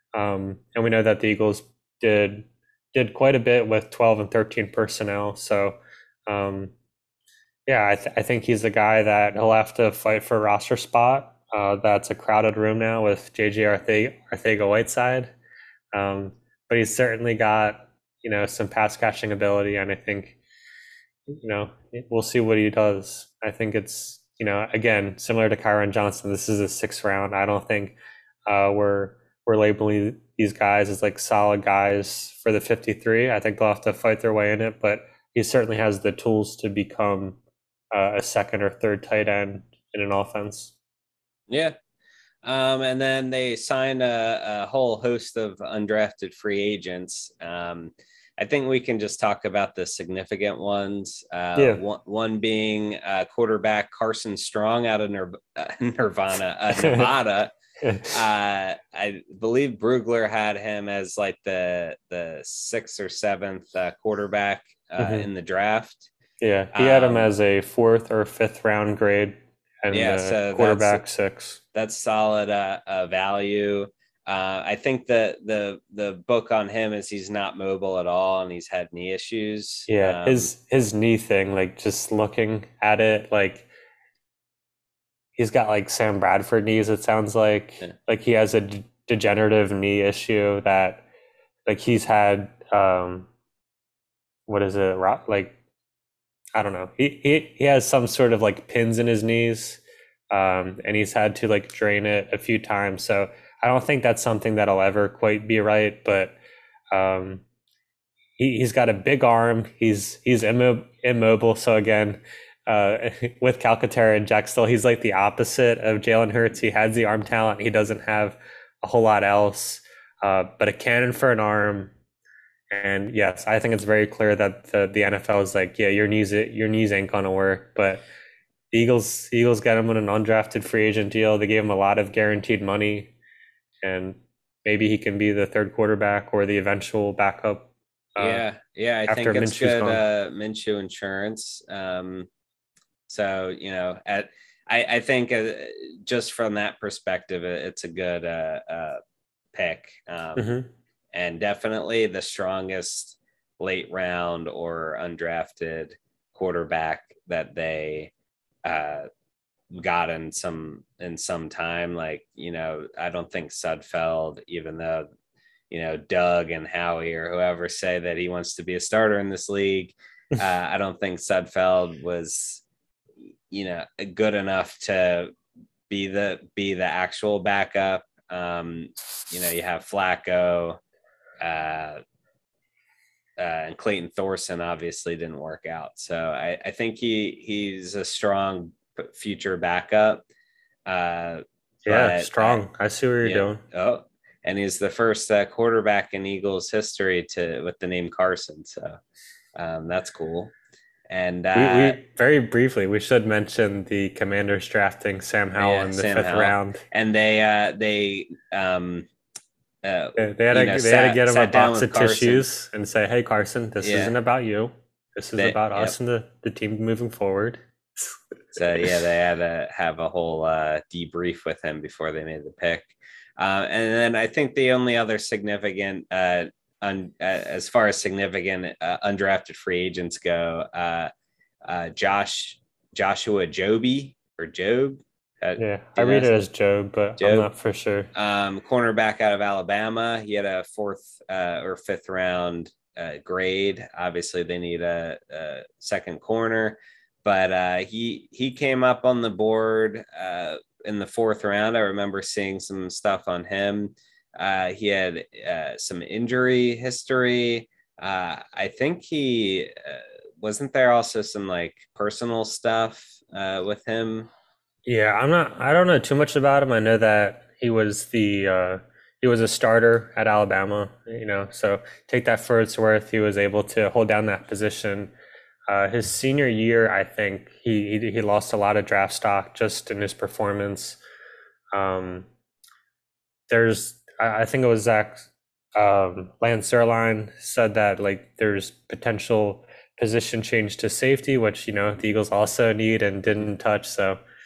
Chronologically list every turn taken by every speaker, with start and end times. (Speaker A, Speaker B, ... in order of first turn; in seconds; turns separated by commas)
Speaker A: 0.1-6.7, Speaker A: 7.7-15.3, Speaker A: 15.9-20.4, Speaker A: 21.3-27.9, Speaker A: 28.5-37.4, Speaker A: 37.9-40.7, Speaker B: 41.5-41.7, Speaker B: 42.4-57.5, Speaker A: 51.5-51.8, Speaker A: 56.7-57.1, Speaker A: 57.8-58.1, Speaker B: 58.0-66.1, Speaker A: 65.0-65.3, Speaker A: 66.4-71.6, Speaker B: 66.7-67.3, Speaker B: 69.9-71.0, Speaker B: 71.7-80.5, Speaker A: 79.9-83.7, Speaker A: 85.3-91.0, Speaker A: 91.7-93.3, Speaker A: 94.5-95.5, Speaker A: 96.5-106.4, Speaker A: 106.9-107.4, Speaker A: 108.4-121.9, Speaker A: 122.7-128.0, Speaker A: 128.7-133.1, Speaker A: 133.8-138.4, Speaker B: 138.2-142.3, Speaker A: 139.1-140.0, Speaker B: 143.1-149.0, Speaker B: 149.5-150.5, Speaker A: 150.3-150.7, Speaker B: 151.1-158.1, Speaker B: 158.6-159.1, Speaker B: 159.7-165.1, Speaker B: 165.7-172.6, Speaker B: 173.5-175.3, Speaker B: 175.9-180.8, Speaker B: 181.4-182.0, Speaker B: 183.4-190.2, Speaker B: 190.8-192.6, Speaker A: 191.8-193.6, Speaker B: 193.2-199.0, Speaker B: 199.6-200.5, Speaker B: 201.1-202.0, Speaker A: 201.5-206.8, Speaker B: 205.6-209.1, Speaker B: 209.8-212.4, Speaker A: 210.2-217.6, Speaker B: 213.8-214.1, Speaker B: 215.4-215.9, Speaker B: 218.5-231.1, Speaker B: 231.6-236.3, Speaker A: 235.6-238.1, Speaker B: 237.2-237.5, Speaker B: 238.1-264.3, Speaker A: 264.9-275.1, Speaker A: 275.7-281.0, Speaker A: 281.7-282.3, Speaker A: 283.5-294.2